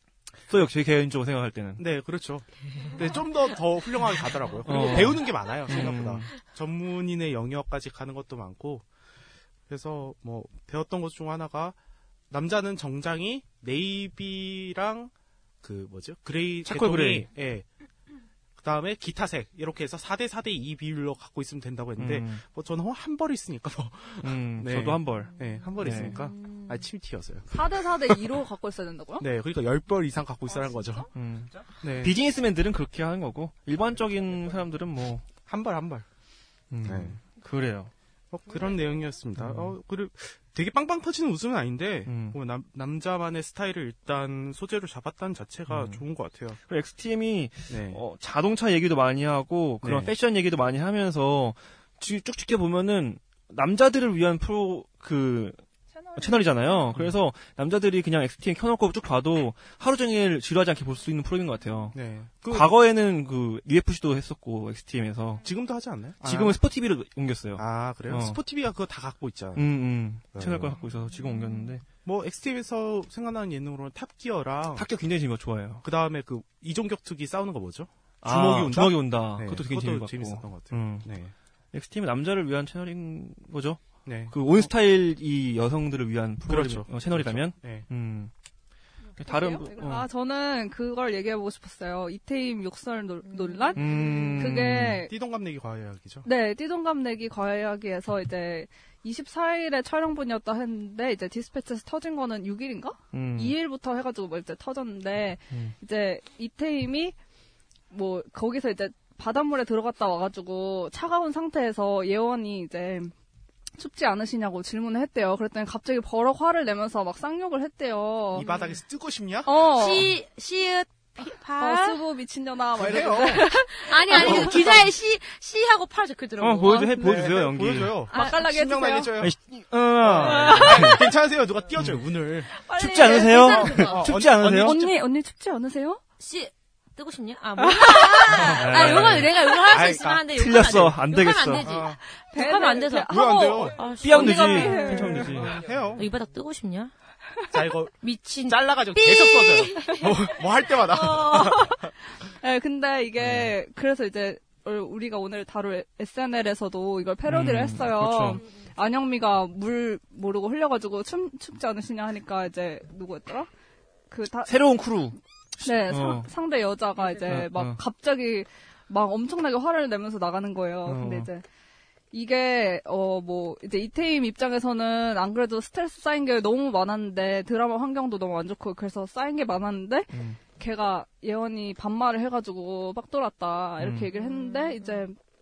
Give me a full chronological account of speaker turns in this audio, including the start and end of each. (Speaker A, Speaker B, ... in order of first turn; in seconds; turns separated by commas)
Speaker A: 0.5-1.9, Speaker B: 1.8-8.8, Speaker A: 4.7-6.3, Speaker B: 9.7-11.8, Speaker B: 12.3-17.7, Speaker A: 16.6-17.3, Speaker B: 18.6-27.5, Speaker A: 22.0-22.4, Speaker A: 24.2-26.2, Speaker C: 25.4-26.9, Speaker D: 27.5-29.2, Speaker B: 29.2-31.1, Speaker A: 31.1-35.3, Speaker B: 31.8-32.2, Speaker B: 35.5-36.1, Speaker A: 36.7-37.9, Speaker B: 36.8-37.2, Speaker B: 38.3-46.6, Speaker A: 39.4-39.8, Speaker A: 42.1-42.4, Speaker A: 45.7-46.0, Speaker A: 46.7-55.6, Speaker B: 47.7-48.0, Speaker B: 49.8-50.1, Speaker D: 56.0-56.9, Speaker A: 56.2-65.5, Speaker B: 61.9-62.7, Speaker B: 65.4-66.6, Speaker A: 66.2-68.4, Speaker B: 67.6-70.8, Speaker A: 69.5-71.8, Speaker B: 72.0-74.9, Speaker A: 74.8-75.8, Speaker B: 75.8-81.3, Speaker A: 78.2-81.1, Speaker A: 81.7-88.3, Speaker B: 84.0-84.7, Speaker B: 86.5-87.9, Speaker D: 89.2-95.1, Speaker A: 89.2-90.1, Speaker C: 93.2-94.4, Speaker A: 93.8-95.0, Speaker B: 95.0-96.3, Speaker D: 96.2-107.2, Speaker A: 103.1-103.6, Speaker D: 107.9-113.1, Speaker D: 113.8-118.5, Speaker B: 118.3-119.5, Speaker C: 118.4-118.8, Speaker D: 119.5-120.1, Speaker C: 119.7-122.0, Speaker D: 121.6-124.8, Speaker B: 122.8-123.5, Speaker C: 123.7-127.0, Speaker A: 126.4-128.1, Speaker B: 126.7-129.4, Speaker D: 128.1-129.1, Speaker C: 128.1-128.5, Speaker A: 129.2-131.1, Speaker B: 130.0-132.5, Speaker A: 131.8-132.1, Speaker D: 132.6-136.0, Speaker A: 132.8-134.8, Speaker C: 133.0-134.0, Speaker B: 133.4-135.0, Speaker C: 136.2-146.9, Speaker D: 137.6-138.3, Speaker B: 138.5-140.9, Speaker A: 138.6-139.3, Speaker A: 140.3-141.7, Speaker B: 141.6-142.0, Speaker D: 142.3-145.4, Speaker B: 143.1-146.1, Speaker A: 144.0-145.7, Speaker B: 147.5-151.9, Speaker C: 148.0-150.0, Speaker D: 150.9-151.7, Speaker D: 152.4-163.5, Speaker A: 153.2-153.5, Speaker A: 157.3-158.4, Speaker D: 164.1-164.6, Speaker A: 164.5-166.3, Speaker D: 165.6-171.4, Speaker A: 167.2-167.8, Speaker A: 170.9-171.3, Speaker D: 172.1-185.2, Speaker A: 180.1-180.4, Speaker A: 183.8-184.1, Speaker C: 184.1-185.1